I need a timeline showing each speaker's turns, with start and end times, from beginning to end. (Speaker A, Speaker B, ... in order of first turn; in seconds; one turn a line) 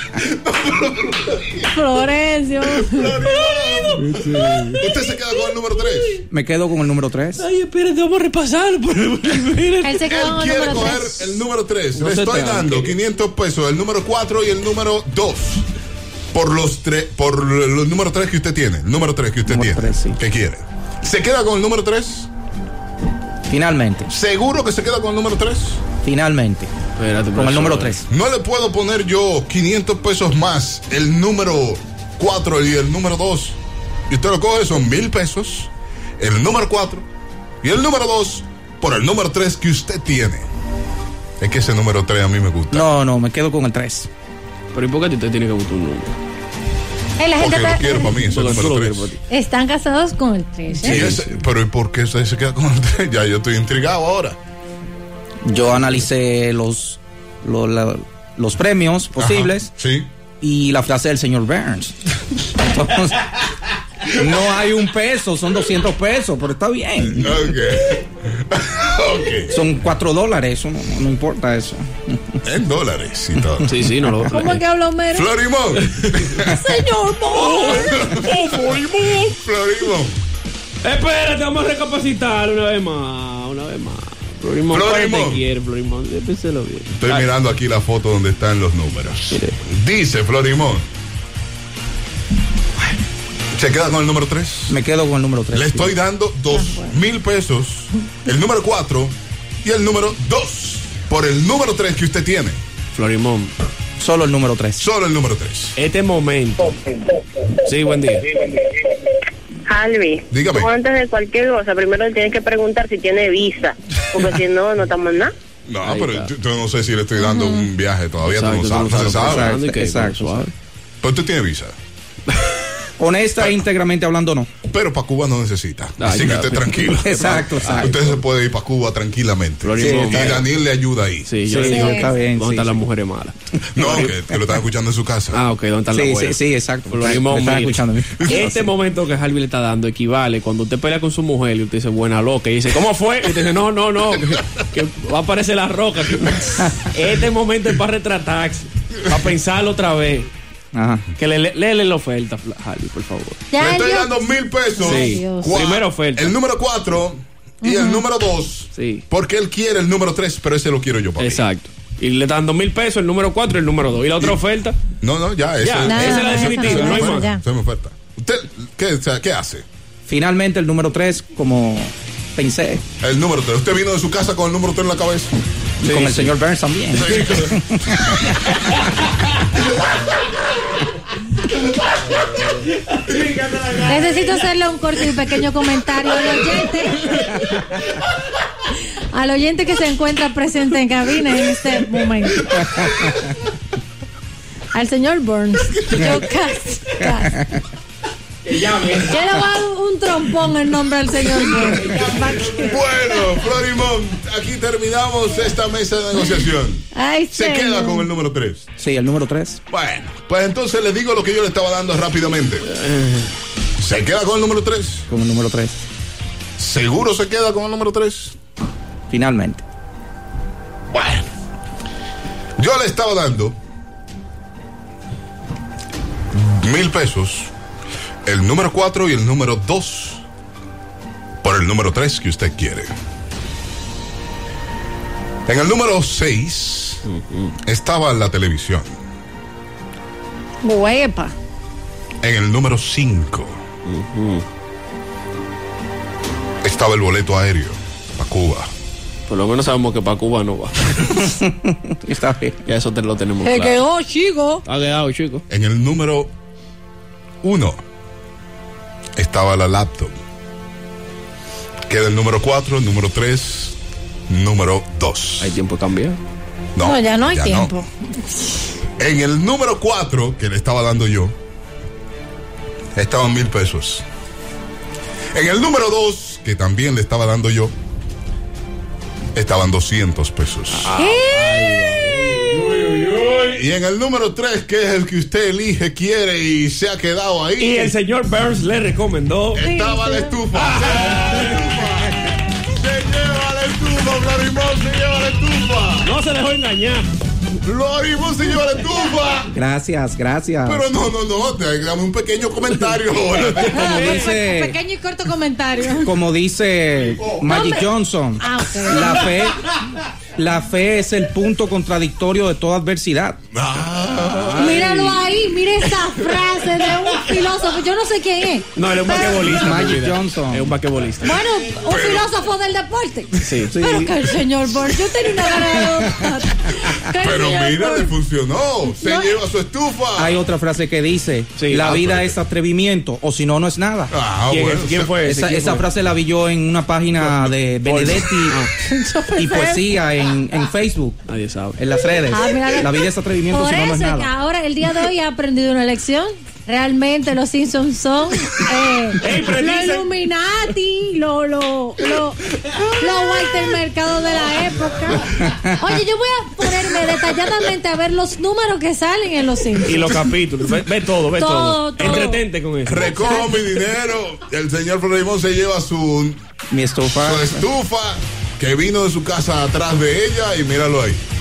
Speaker A: 0.2-1.6
Speaker B: 1.7-3.2
Speaker A: 2.9-6.2
Speaker C: 6.3-7.4
Speaker D: 7.4-10.0
Speaker B: 9.8-11.3
Speaker A: 10.1-15.7
Speaker D: 11.9-12.9
Speaker A: 16.3-22.3
Speaker C: 19.5-20.2
Speaker C: 23.5-24.1
Speaker A: 24.1-25.8
Speaker C: 26.0-26.7
Speaker D: 27.0-27.9
Speaker C: 27.4-28.0
Speaker A: 28.1-33.6
Speaker A: 34.1-37.0
Speaker A: 37.6-40.5
Speaker A: 41.4-42.9
Speaker C: 42.7-44.1
Speaker D: 44.7-46.1
Speaker B: 47.2-48.1
Speaker A: 47.4-49.1
Speaker D: 48.2-49.2
Speaker B: 49.3-51.0
Speaker A: 50.8-54.4
Speaker D: 50.9-51.2
Speaker C: 55.5-59.7
Speaker A: 59.1-60.1
Speaker C: 60.4-61.9
Speaker C: 62.5-63.2
Speaker C: 64.1-67.4
Speaker A: 67.0-69.6
Speaker C: 69.5-72.4
Speaker A: 72.4-73.7
Speaker D: 73.7-74.6
Speaker B: 74.3-75.3
Speaker A: 75.1-76.6
Speaker B: 76.6-78.0
Speaker D: 77.4-79.1
Speaker A: 77.6-80.2
Speaker D: 80.8-87.3
Speaker A: 84.7-85.4
Speaker A: 87.0-90.8
Speaker A: 93.5-94.8
Speaker C: 94.7-95.9
Speaker A: 95.5-102.6
Speaker B: 96.5-96.9
Speaker D: 102.9-103.5
Speaker C: 104.0-104.8
Speaker A: 104.8-105.8
Speaker D: 105.8-106.8
Speaker D: 107.6-108.3
Speaker E: 109.7-115.3
Speaker A: 110.3-110.7
Speaker A: 115.7-119.5
Speaker D: 115.8-116.3
Speaker B: 117.2-117.6
Speaker D: 118.3-120.5
Speaker C: 119.0-120.5
Speaker A: 121.0-121.8
Speaker C: 123.0-124.5
Speaker A: 124.6-131.3
Speaker D: 126.0-128.2
Speaker C: 127.0-128.0
Speaker D: 129.6-130.4
Speaker C: 129.8-130.4
Speaker D: 131.3-134.1
Speaker C: 131.4-132.8
Speaker B: 131.7-132.1
Speaker A: 133.7-135.4
Speaker D: 135.3-150.3
Speaker C: 135.9-138.6
Speaker A: 138.2-138.5
Speaker C: 150.7-151.1
Speaker D: 151.2-153.4
Speaker B: 153.5-154.2
Speaker A: 153.6-161.4
Speaker B: 154.7-155.6
Speaker D: 154.8-156.3
Speaker B: 157.6-158.0
Speaker D: 158.7-159.0
Speaker D: 161.2-164.8
Speaker A: 165.0-169.6
Speaker D: 165.6-167.3
Speaker B: 165.9-167.4
Speaker C: 170.1-172.8
Speaker A: 173.0-175.3
Speaker C: 175.8-178.7
Speaker A: 176.9-177.5
Speaker B: 183.8-187.1
Speaker B: 189.1-192.5
Speaker C: 192.5-193.2
Speaker B: 194.7-197.4
Speaker C: 197.1-197.4
Speaker D: 198.5-199.0
Speaker B: 199.1-202.8
Speaker A: 202.6-208.7
Speaker B: 206.9-208.1
Speaker C: 208.8-209.6
Speaker A: 209.7-212.7
Speaker D: 212.7-213.3
Speaker A: 213.8-215.0
Speaker C: 215.1-215.8
Speaker A: 216.6-218.3
Speaker C: 219.1-219.6
Speaker A: 220.9-221.3
Speaker A: 222.6-223.6
Speaker A: 226.3-227.5
Speaker A: 228.2-230.2
Speaker A: 231.4-232.9
Speaker A: 235.4-237.0
Speaker D: 237.1-237.5
Speaker A: 237.6-238.9
Speaker B: 240.6-241.3
Speaker A: 242.2-243.6
Speaker D: 243.8-244.4
Speaker A: 246.6-248.7
Speaker D: 249.3-251.0
Speaker C: 251.1-252.6
Speaker D: 252.7-253.8
Speaker B: 253.4-254.6
Speaker D: 254.6-255.4
Speaker A: 255.5-256.3
Speaker A: 257.4-257.8
Speaker A: 259.1-260.1
Speaker A: 261.9-263.8
Speaker A: 264.3-265.5
Speaker D: 265.4-266.2
Speaker A: 266.7-267.7
Speaker B: 266.8-267.9
Speaker A: 269.0-271.3
Speaker A: 272.9-274.0
Speaker A: 275.3-277.7
Speaker A: 279.3-280.9
Speaker D: 280.8-283.6
Speaker B: 280.9-281.6
Speaker A: 283.5-287.9
Speaker D: 287.6-289.6
Speaker A: 289.5-292.1
Speaker B: 289.6-290.3
Speaker D: 290.5-291.6
Speaker A: 292.7-296.1
Speaker D: 296.0-297.1
Speaker A: 297.6-299.5
Speaker C: 299.5-300.9
Speaker A: 300.6-304.2
Speaker B: 303.7-306.1
Speaker C: 303.8-304.7
Speaker D: 303.8-304.1
Speaker C: 305.9-309.6
Speaker B: 307.5-307.9
Speaker B: 308.4-309.3
Speaker C: 310.4-313.4
Speaker A: 313.5-315.0
Speaker B: 314.6-319.5
Speaker D: 318.8-321.4
Speaker C: 319.3-320.7
Speaker B: 321.2-328.1
Speaker A: 321.9-322.3
Speaker D: 323.4-323.8
Speaker C: 323.7-324.3
Speaker C: 325.7-326.1
Speaker A: 327.1-330.4
Speaker B: 329.0-329.3
Speaker C: 330.2-334.1
Speaker D: 331.6-332.0
Speaker A: 331.8-332.4
Speaker A: 334.1-335.1
Speaker D: 334.5-335.9
Speaker C: 335.2-338.6
Speaker D: 337.8-338.7
Speaker B: 338.8-339.8
Speaker C: 339.3-341.2
Speaker D: 341.3-341.8
Speaker C: 341.8-344.3
Speaker B: 342.3-352.4
Speaker D: 349.2-350.1
Speaker B: 353.0-360.1
Speaker C: 355.4-355.8
Speaker D: 359.8-363.4
Speaker B: 361.4-362.4
Speaker A: 362.9-366.4
Speaker C: 366.7-367.6
Speaker A: 367.2-371.2